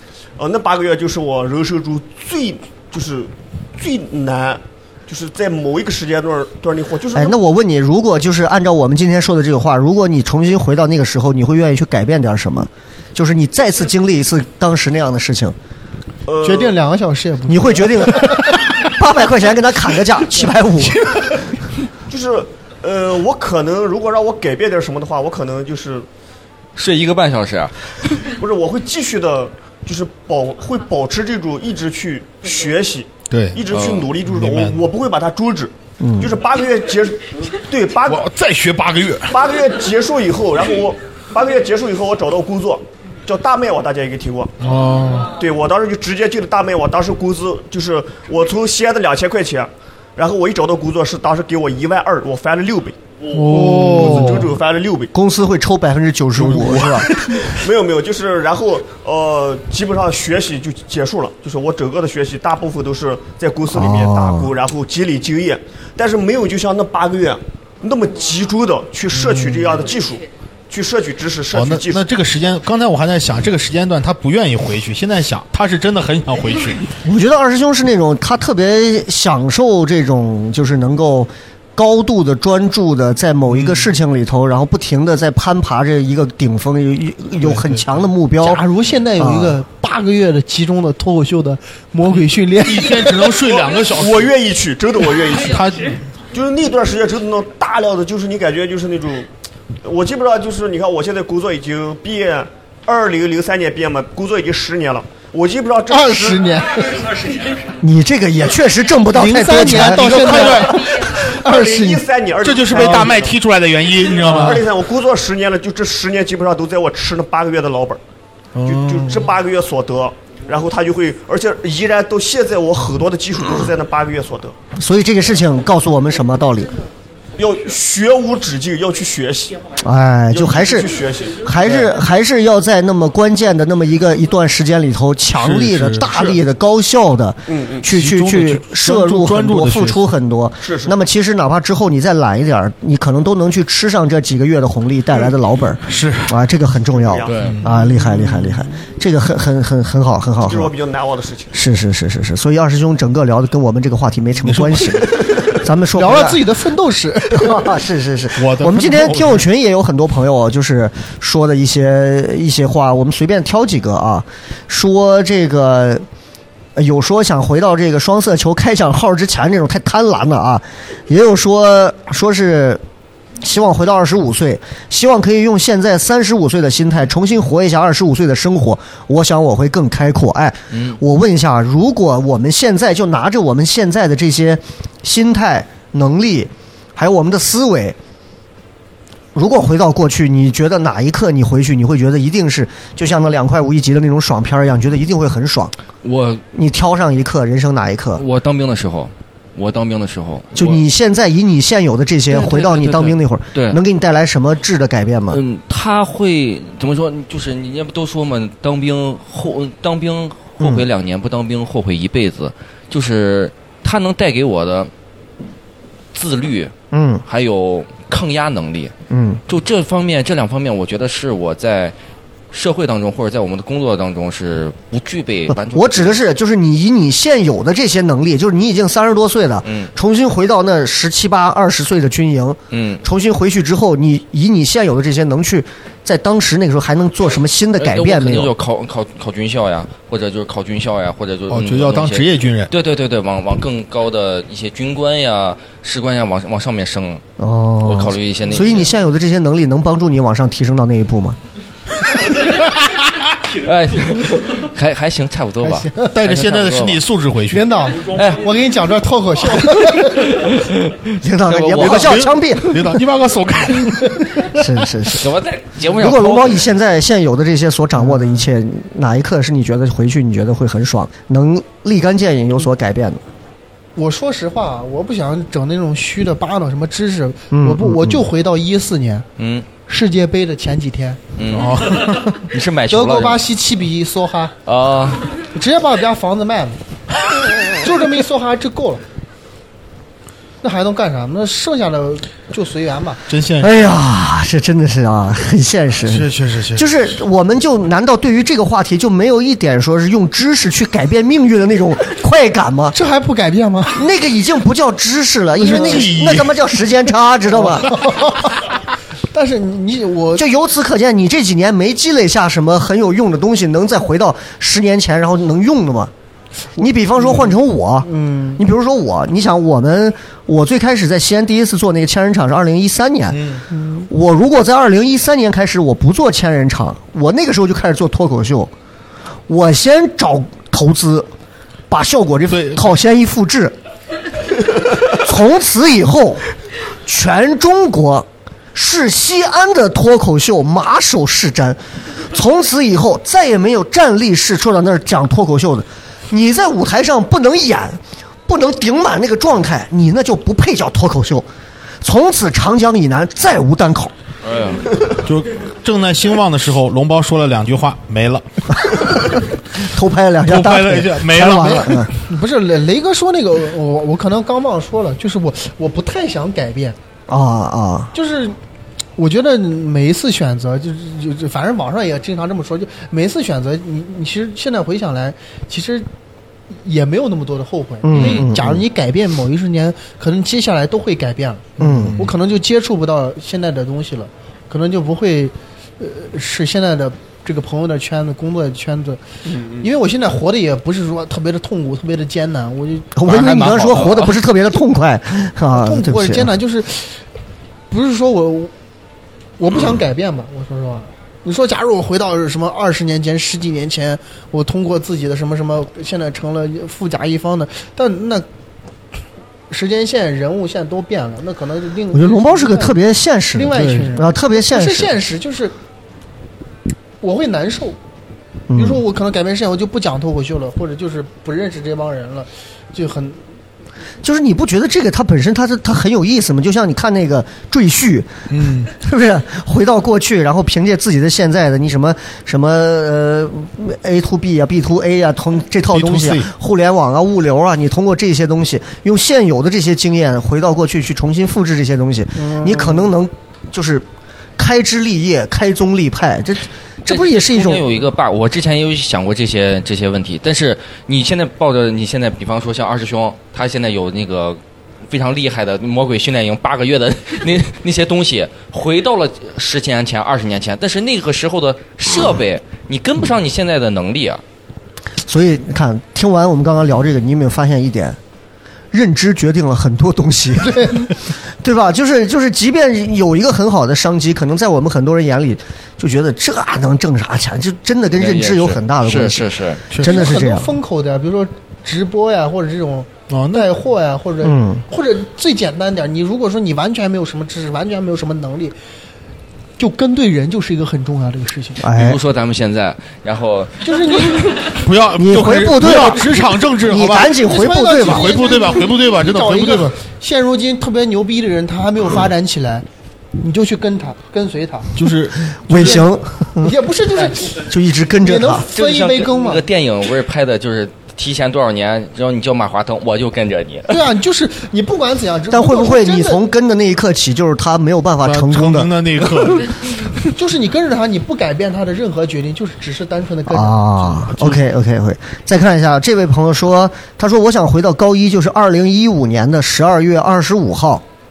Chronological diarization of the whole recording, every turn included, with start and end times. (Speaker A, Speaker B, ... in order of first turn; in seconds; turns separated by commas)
Speaker A: 0.4-7.4, Speaker B: 7.1-15.6, Speaker A: 16.3-16.8, Speaker C: 16.4-18.6, Speaker B: 17.5-21.1, Speaker A: 22.1-26.1, Speaker D: 26.8-27.8, Speaker A: 28.4-38.3, Speaker E: 33.3-33.6, Speaker D: 33.7-34.1, Speaker E: 34.2-34.9, Speaker B: 36.0-36.4, Speaker E: 38.1-39.4, Speaker A: 39.3-44.7, Speaker E: 44.6-45.4, Speaker A: 45.2-53.0, Speaker E: 53.3-54.5, Speaker C: 53.4-54.4, Speaker A: 53.5-55.1, Speaker B: 55.1-57.1, Speaker E: 56.4-57.6, Speaker A: 57.5-72.0, Speaker B: 63.7-64.5, Speaker E: 69.1-69.8, Speaker E: 71.5-76.9, Speaker B: 77.0-88.6, Speaker E: 83.6-83.9, Speaker E: 87.4-87.9, Speaker C: 88.4-93.3, Speaker B: 89.2-89.6, Speaker E: 92.6-94.3, Speaker A: 93.4-95.7, Speaker E: 95.4-96.0, Speaker A: 96.3-99.3, Speaker A: 99.8-106.5, Speaker C: 105.9-107.2, Speaker B: 107.8-110.3, Speaker C: 109.1-112.0, Speaker E: 109.8-110.8, Speaker A: 111.3-113.4, Speaker E: 112.4-114.7, Speaker A: 114.2-118.0, Speaker E: 118.6-119.2, Speaker A: 118.7-124.6, Speaker B: 124.8-126.8, Speaker A: 127.4-129.7, Speaker B: 129.8-150.7, Speaker A: 130.3-131.9, Speaker E: 135.4-136.4, Speaker A: 137.5-137.9, Speaker E: 137.9-140.1, Speaker A: 140.6-140.9, Speaker E: 145.9-146.4, Speaker A: 147.0-147.4, Speaker D: 147.3-147.6, Speaker E: 147.4-147.8, Speaker A: 150.4-151.5, Speaker B: 151.5-156.4, Speaker E: 154.4-155.3, Speaker C: 155.9-157.7, Speaker B: 157.3-166.1, Speaker E: 158.4-159.4, Speaker B: 166.8-172.8, Speaker B: 173.4-188.0, Speaker D: 180.7-181.0, Speaker B: 189.3-195.7, Speaker D: 196.0-196.4, Speaker B: 196.5-198.2, Speaker D: 198.2-200.8, Speaker B: 200.6-205.4, Speaker D: 202.3-203.8, Speaker D: 205.3-214.9, Speaker B: 210.6-210.9, Speaker D: 216.1-216.7, Speaker B: 216.9-217.2, Speaker D: 217.3-218.9, Speaker B: 219.1-219.4, Speaker D: 219.5-221.9, Speaker D: 222.5-226.2, Speaker B: 225.5-238.5, Speaker D: 229.7-229.9, Speaker D: 232.7-233.0, Speaker D: 237.8-247.2, Speaker E: 241.5-242.7, Speaker B: 247.4-251.4, Speaker D: 247.8-248.9, Speaker D: 253.6-257.0, Speaker C: 255.6-256.1, Speaker E: 256.0-257.7, Speaker C: 257.5-260.4, Speaker D: 258.1-258.5, Speaker D: 260.3-261.0, Speaker B: 261.2-262.9, Speaker D: 261.5-262.2, Speaker E: 261.8-264.4, Speaker B: 264.5-265.3, Speaker D: 265.2-266.7, Speaker B: 265.9-273.2, Speaker C: 274.0-279.3, Speaker B: 277.5-278.2, Speaker D: 279.4-279.7, Speaker C: 279.9-281.2, Speaker D: 281.4-283.4, Speaker E: 281.5-282.4, Speaker C: 282.9-284.6, Speaker D: 284.7-285.2, Speaker C: 285.4-286.8, Speaker C: 287.8-289.0, Speaker C: 290.6-293.2, Speaker E: 293.3-293.7, Speaker B: 293.6-303.0, Speaker E: 296.1-296.9, Speaker C: 302.9-304.0, Speaker B: 303.9-307.9, Speaker C: 305.6-306.1, Speaker E: 305.7-306.5, Speaker C: 307.5-308.6, Speaker C: 309.3-310.5, Speaker B: 310.4-316.1, Speaker B: 316.8-328.7, Speaker C: 317.2-318.6, Speaker E: 323.3-323.6, Speaker B: 329.5-331.3, Speaker B: 331.9-333.8, Speaker E: 332.5-332.8, Speaker B: 335.0-336.4, Speaker B: 337.1-351.5, Speaker B: 352.0-354.1, Speaker D: 354.4-354.9, Speaker E: 355.2-358.4, Speaker B: 358.9-362.1, Speaker E: 360.5-362.1, Speaker C: 361.6-367.0, Speaker B: 367.3-368.1, Speaker C: 368.1-368.6, Speaker C: 369.2-376.1, Speaker C: 376.7-389.2, Speaker B: 378.0-378.8, Speaker B: 381.8-382.2, Speaker E: 381.8-382.2, Speaker A: 389.6-389.9, Speaker C: 389.8-393.1, Speaker B: 393.1-396.5, Speaker D: 393.3-394.4, Speaker C: 395.7-397.2, Speaker C: 397.9-398.7, Speaker C: 399.6-408.5, Speaker C: 409.7-413.0, Speaker B: 412.1-415.1, Speaker C: 413.6-415.7, Speaker E: 413.8-414.1, Speaker C: 417.2-418.0, Speaker B: 418.7-419.0, Speaker C: 418.8-423.4, Speaker B: 424.2-444.1, Speaker E: 428.5-428.9, Speaker E: 435.9-436.5, Speaker C: 442.4-443.1, Speaker B: 444.6-447.9, Speaker D: 447.1-464.4, Speaker B: 465.3-468.2, Speaker B: 468.9-471.1, Speaker C: 470.7-471.0, Speaker B: 471.6-480.7, Speaker D: 478.2-479.8, Speaker C: 480.0-488.7, Speaker E: 483.3-483.7, Speaker B: 484.4-484.8, Speaker C: 489.8-491.8, Speaker B: 491.8-492.2, Speaker D: 491.9-494.3, Speaker C: 493.8-494.7, Speaker E: 494.8-497.3, Speaker B: 495.2-498.6, Speaker C: 497.4-502.9, Speaker E: 498.1-499.9, Speaker C: 503.4-504.9, Speaker E: 505.0-506.0, Speaker B: 505.5-506.7, Speaker C: 505.7-506.1, Speaker C: 506.6-507.7, Speaker B: 507.6-508.7, Speaker C: 508.2-509.6, Speaker D: 508.7-514.0, Speaker C: 513.9-516.4, Speaker B: 515.5-518.9, Speaker E: 518.2-520.0, Speaker C: 520.4-524.3, Speaker B: 523.5-531.0